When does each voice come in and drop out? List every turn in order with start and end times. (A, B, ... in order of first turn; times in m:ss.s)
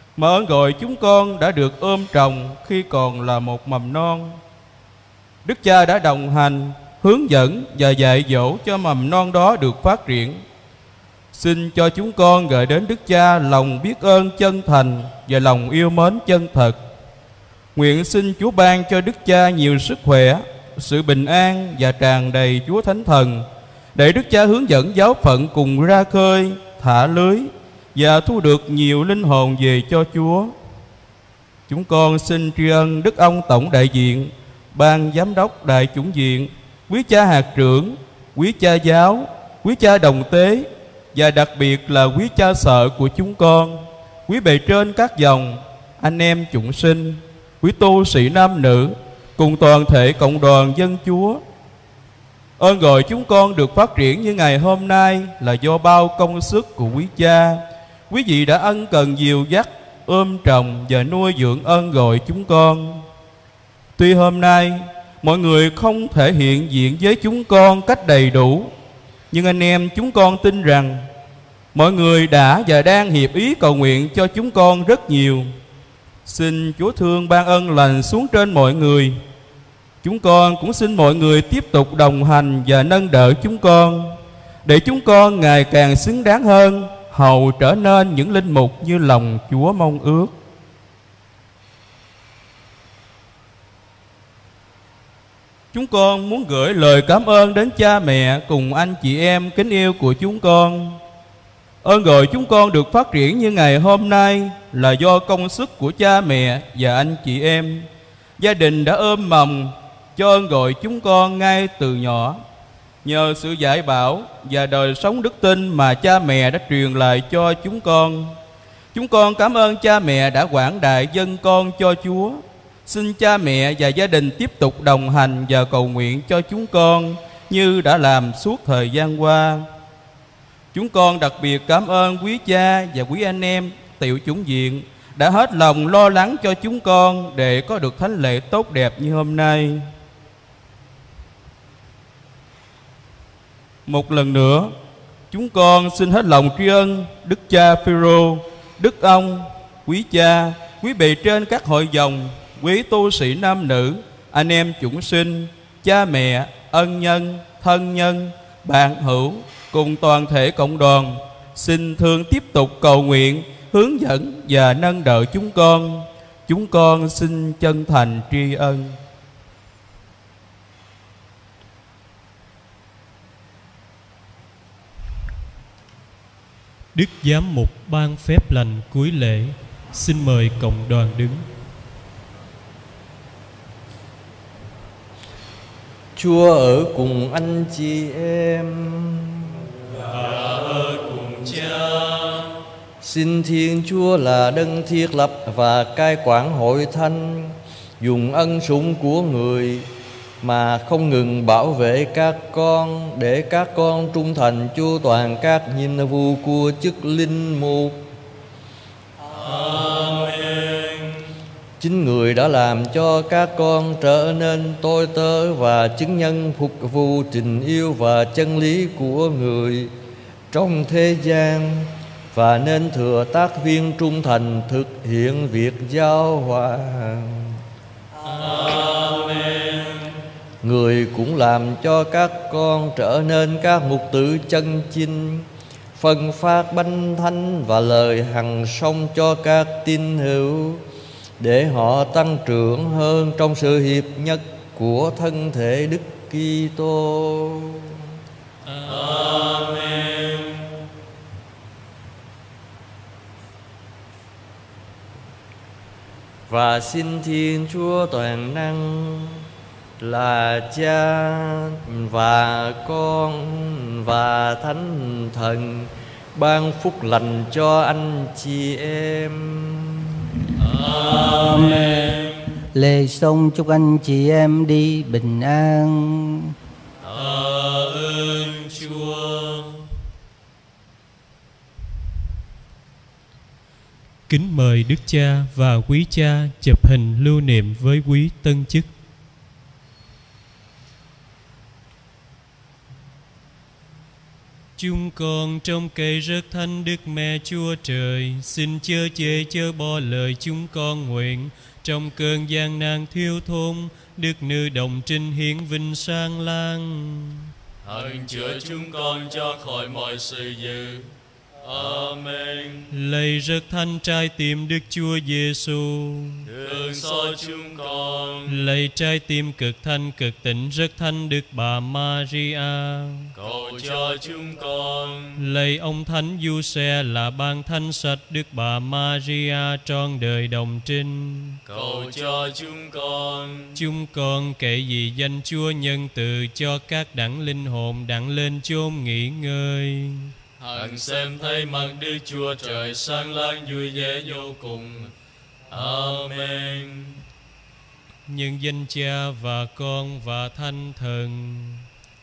0:00.2-0:04.4 A
0:05.4-0:10.4 A
0:11.3-0:16.8 A
0:17.8-0:30.5 A
0:31.7-0:51.4 A
0:52.6-1:03.0 A
1:04.0-1:08.7 A
1:09.3-1:11.1 A
1:11.7-1:15.5 A
1:16.3-1:19.2 A
1:20.0-1:30.3 A
1:35.7-1:41.0 A
1:41.8-1:47.9 A
1:48.4-1:52.4 A
1:53.0-1:58.4 A
1:58.9-2:09.7 A
2:10.7-2:19.9 A
2:23.9-2:24.7 A
2:25.3-2:49.0 A
2:57.0-3:01.5 B
3:06.2-3:09.6 C
3:09.9-3:12.5 D
3:13.0-3:19.9 C
3:20.4-3:28.0 C
3:29.2-3:31.2 D
3:31.8-3:39.9 C
3:40.5-3:47.5 C
3:48.2-3:50.1 D
3:50.6-4:00.8 C
4:01.4-4:08.0 C
4:08.6-4:10.7 D
4:16.5-4:19.4 C
4:20.0-4:30.1 C
4:30.6-4:32.4 D
4:32.8-4:36.5 E
4:37.0-4:39.9 D
4:44.3-4:48.9 B
4:54.8-5:07.5 B
5:07.8-5:12.9 D
5:12.9-5:16.5 B
5:16.5-5:18.6 D
5:18.5-5:23.3 B
5:23.3-5:25.4 D
5:25.4-5:31.6 B
5:31.6-5:33.8 D
5:33.8-5:40.3 B
5:40.6-5:45.1 D
5:45.7-5:47.2 D
5:48.3-5:51.9 B